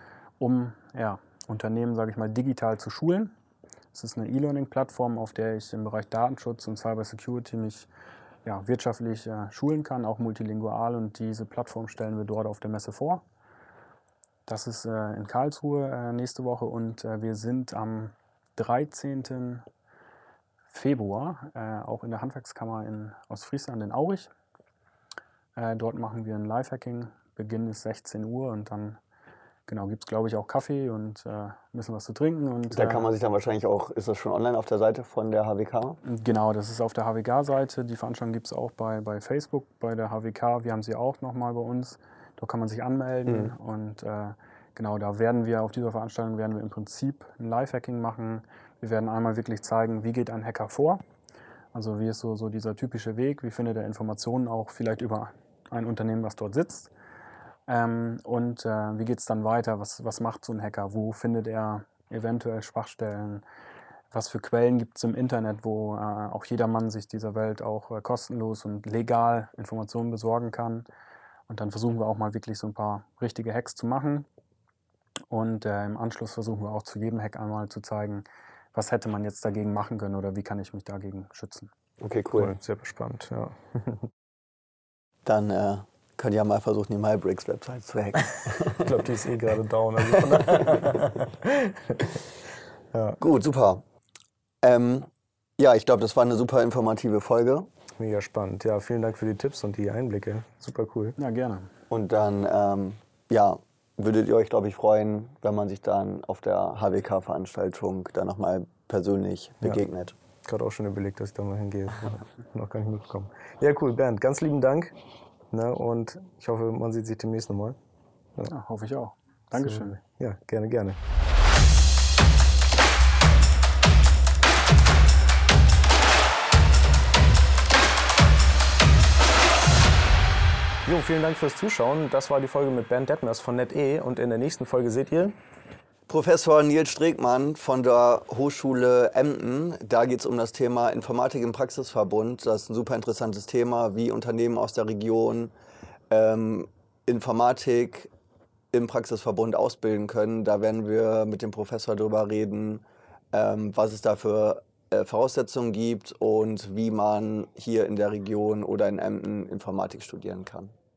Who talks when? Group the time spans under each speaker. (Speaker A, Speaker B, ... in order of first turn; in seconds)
Speaker A: 0.4-3.3, 3.9-7.9, 8.4-13.2, 14.5-19.6, 20.7-24.3, 25.6-29.0, 29.7-33.1, 36.0-51.0, 51.7-56.9, 57.7-63.4, 64.1-70.9, 71.5-74.3, 75.3-81.7, 101.2-101.7, 118.5-120.0
Speaker B: 32.7-36.0, 43.3-43.5, 82.0-82.5, 85.3-88.9, 90.1-90.8, 93.2-93.8, 94.6-97.7, 101.9-110.2, 136.1-145.5, 146.1-148.1, 148.7-160.7
Speaker C: 82.4-84.1, 88.5-92.2, 92.9-93.2, 98.0-101.2, 110.5-115.0, 115.5-117.8, 119.6-121.0, 130.9-135.4